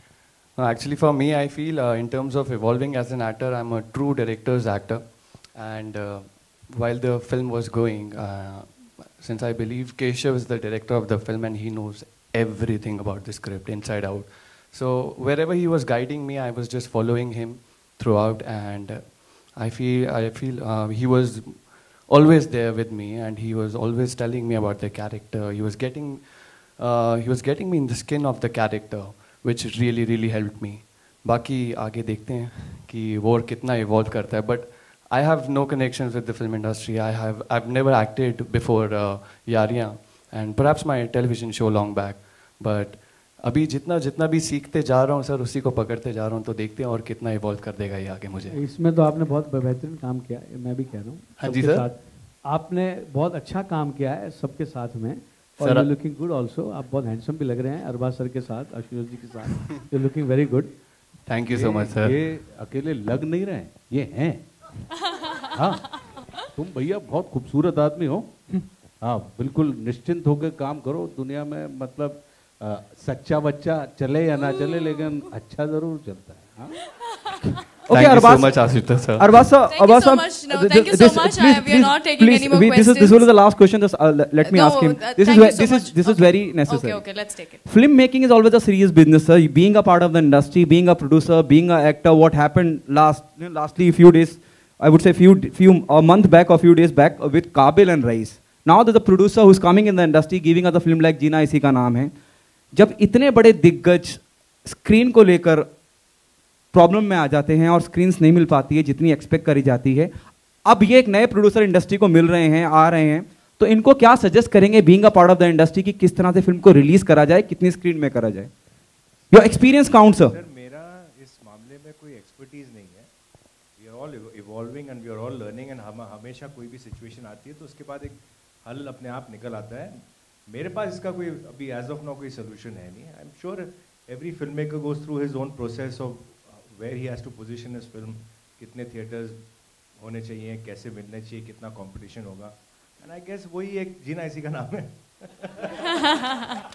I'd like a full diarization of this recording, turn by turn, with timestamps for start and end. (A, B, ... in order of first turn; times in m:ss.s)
0:00.6-0:48.6 A
0:48.5-1:00.7 B
0:51.4-0:51.9 A
0:55.6-0:55.9 A
1:01.2-1:02.2 A
1:01.5-1:04.4 C
1:05.5-1:05.9 C
1:06.5-1:08.3 C
1:09.0-1:16.8 C
1:14.4-1:15.2 D
1:17.9-1:18.5 E
1:17.9-1:19.4 A
1:19.2-1:27.1 E
1:19.6-1:23.3 D
1:24.4-1:27.6 D
1:27.6-1:42.1 E
1:42.7-1:45.7 E
1:46.7-1:50.1 E
1:50.6-1:58.5 E
1:59.3-2:00.3 E
1:59.5-2:03.1 F
2:03.8-2:19.4 F
2:20.0-2:25.6 F
2:26.0-2:26.5 D